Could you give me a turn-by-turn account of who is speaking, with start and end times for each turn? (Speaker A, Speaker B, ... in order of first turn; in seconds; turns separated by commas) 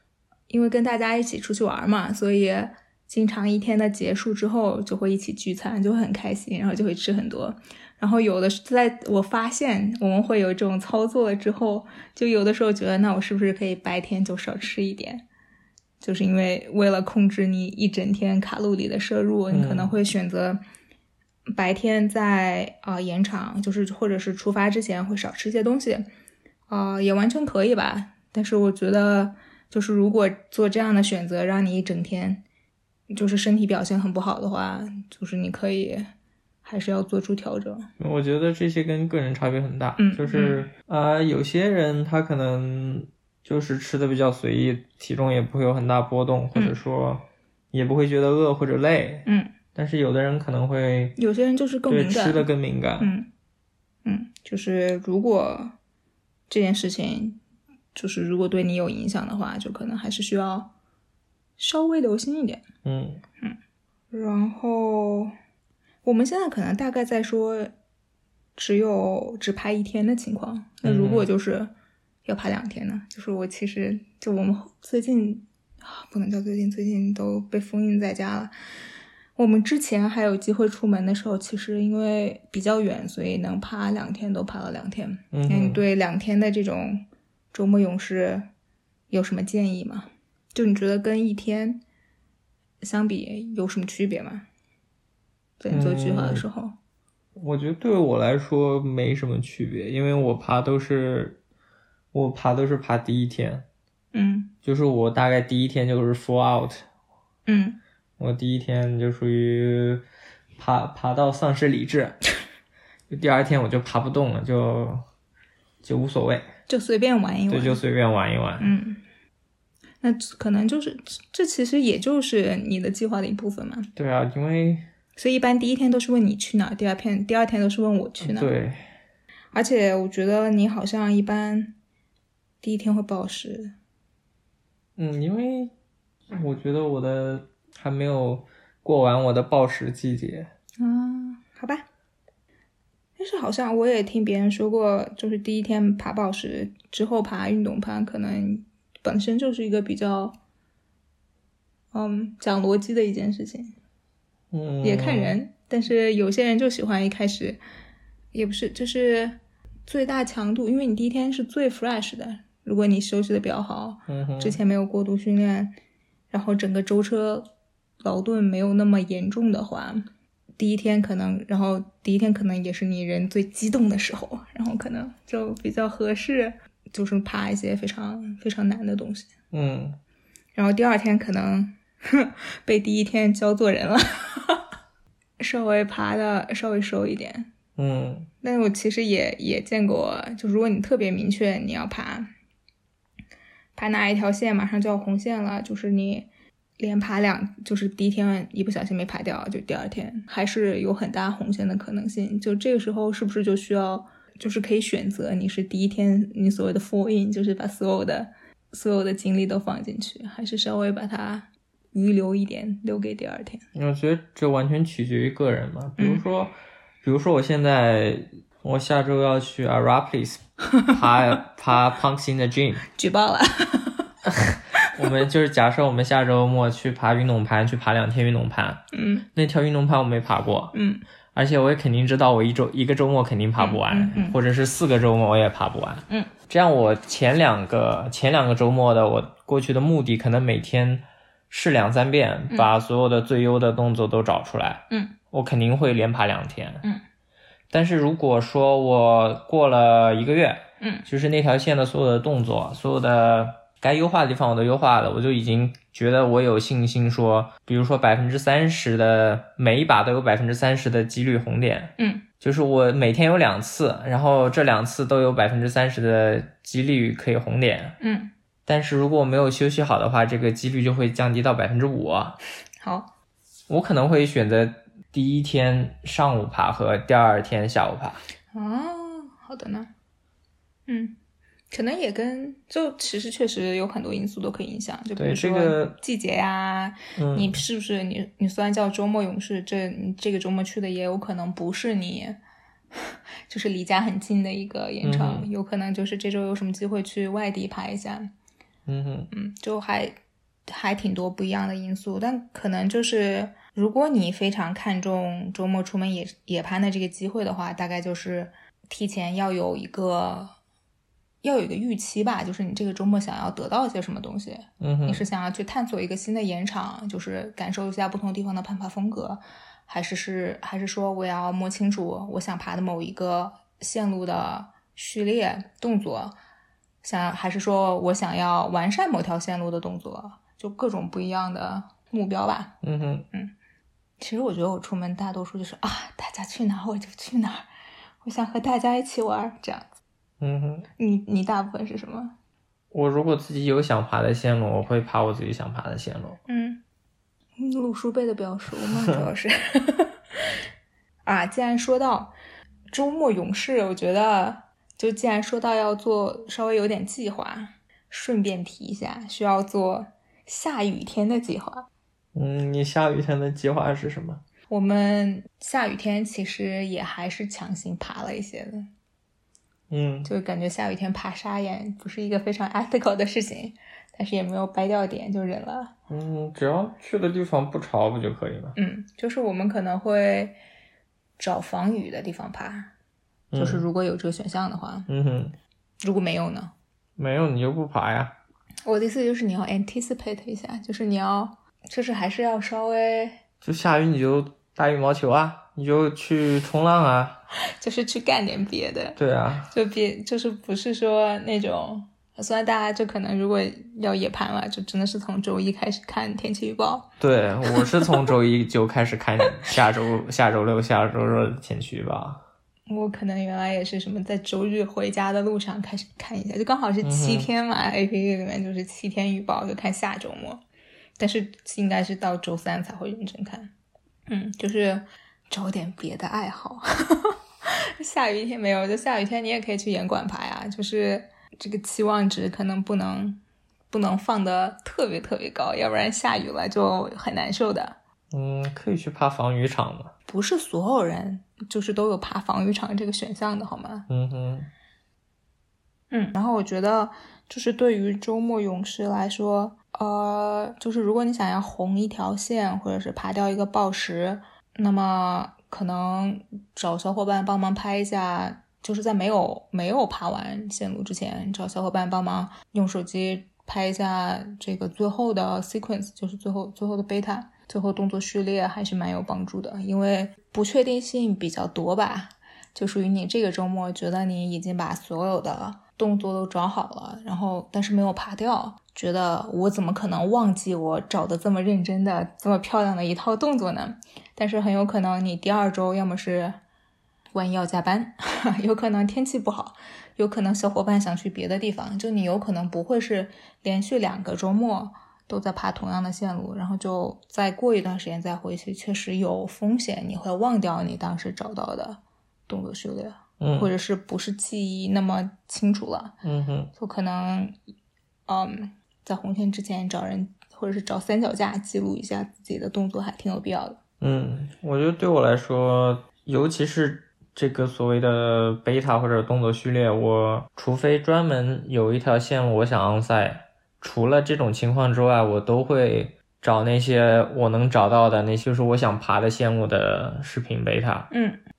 Speaker A: 0.5-15.2, Speaker A: 16.0-20.6, Speaker B: 19.5-19.9, Speaker A: 21.5-26.1, Speaker A: 26.7-32.4, Speaker A: 33.1-36.1, Speaker A: 36.6-37.9, Speaker B: 38.0-51.2, Speaker A: 40.0-40.6, Speaker A: 49.2-49.5, Speaker A: 51.2-52.5, Speaker B: 51.9-53.1, Speaker A: 53.0-53.3, Speaker A: 54.0-55.7, Speaker A: 56.5-57.4, Speaker A: 57.9-60.7, Speaker A: 61.6-62.6, Speaker B: 62.8-63.2, Speaker A: 64.1-65.3, Speaker A: 66.0-67.7, Speaker A: 68.6-71.7, Speaker B: 70.8-71.3, Speaker A: 72.2-78.5, Speaker A: 79.3-88.5, Speaker B: 85.3-85.8, Speaker A: 89.1-91.8, Speaker A: 92.8-94.5, Speaker A: 95.6-96.7, Speaker B: 95.7-96.4, Speaker B: 97.4-101.4, Speaker B: 102.1-103.7, Speaker A: 104.1-104.5, Speaker B: 104.6-106.8, Speaker A: 107.5-107.8, Speaker B: 108.2-110.0, Speaker B: 110.6-112.2, Speaker B: 113.1-115.0, Speaker B: 115.8-116.5, Speaker A: 116.7-117.8, Speaker B: 117.5-118.7, Speaker A: 118.6-119.0, Speaker A: 120.0-123.9, Speaker B: 124.0-124.8, Speaker A: 125.2-128.5, Speaker B: 128.2-128.9, Speaker A: 129.5-131.7, Speaker A: 132.6-133.7, Speaker B: 135.0-135.7, Speaker B: 136.3-140.5, Speaker A: 140.8-141.8, Speaker A: 143.2-150.3, Speaker A: 151.9-153.7, Speaker B: 154.5-155.4, Speaker A: 154.8-157.6, Speaker A: 158.3-165.7, Speaker B: 164.1-164.6, Speaker A: 166.3-167.4, Speaker A: 168.0-170.1, Speaker A: 170.6-179.3, Speaker B: 179.5-180.0, Speaker A: 180.5-184.6, Speaker A: 185.4-187.5, Speaker B: 187.8-188.3, Speaker A: 188.4-192.3, Speaker A: 193.8-213.6, Speaker B: 213.7-222.9, Speaker A: 216.0-216.2, Speaker A: 222.9-224.1, Speaker B: 224.2-228.8, Speaker A: 224.7-225.2, Speaker A: 228.9-229.2, Speaker B: 229.3-230.7, Speaker A: 230.7-231.0, Speaker B: 231.3-246.8, Speaker A: 233.6-234.4, Speaker B: 247.7-268.0, Speaker A: 250.8-251.1, Speaker A: 262.0-262.2, Speaker A: 268.0-268.3, Speaker B: 268.6-272.4, Speaker A: 272.8-273.1, Speaker B: 273.7-278.2, Speaker A: 278.5-279.9, Speaker A: 280.9-281.1, Speaker A: 281.7-292.4, Speaker B: 285.2-285.9, Speaker B: 287.1-287.6, Speaker A: 292.9-298.3, Speaker B: 295.0-295.5, Speaker B: 298.9-299.3, Speaker A: 299.3-300.2, Speaker A: 300.7-310.5, Speaker A: 311.4-326.4, Speaker B: 314.8-315.2, Speaker A: 327.0-332.8, Speaker B: 332.8-333.2, Speaker A: 334.2-337.7, Speaker A: 338.2-339.9, Speaker B: 340.4-340.9, Speaker A: 341.0-342.3, Speaker B: 342.9-346.4, Speaker A: 346.5-346.8, Speaker A: 347.6-350.5, Speaker A: 351.2-352.3, Speaker A: 352.9-361.9, Speaker B: 362.3-364.4, Speaker A: 364.7-368.9, Speaker B: 369.9-370.3, Speaker A: 370.2-375.9, Speaker B: 376.1-378.8, Speaker A: 378.8-380.6, Speaker A: 381.4-382.9, Speaker B: 383.5-383.9, Speaker A: 383.6-385.1, Speaker B: 385.1-385.6, Speaker A: 386.0-386.7, Speaker B: 387.2-388.4, Speaker A: 388.9-393.4, Speaker B: 393.6-397.4, Speaker A: 397.8-399.2, Speaker B: 399.2-399.7, Speaker A: 399.7-407.1, Speaker B: 407.2-412.4, Speaker A: 407.7-408.3, Speaker A: 412.9-420.6, Speaker B: 417.0-417.5, Speaker A: 421.2-423.7, Speaker A: 424.3-438.0, Speaker B: 438.3-440.1, Speaker A: 440.3-444.1, Speaker B: 444.1-444.7, Speaker A: 446.1-486.6, Speaker A: 487.3-506.1, Speaker B: 503.4-503.7, Speaker B: 506.2-506.7, Speaker A: 506.7-507.6, Speaker A: 508.3-513.8, Speaker B: 514.0-531.1, Speaker A: 531.1-531.4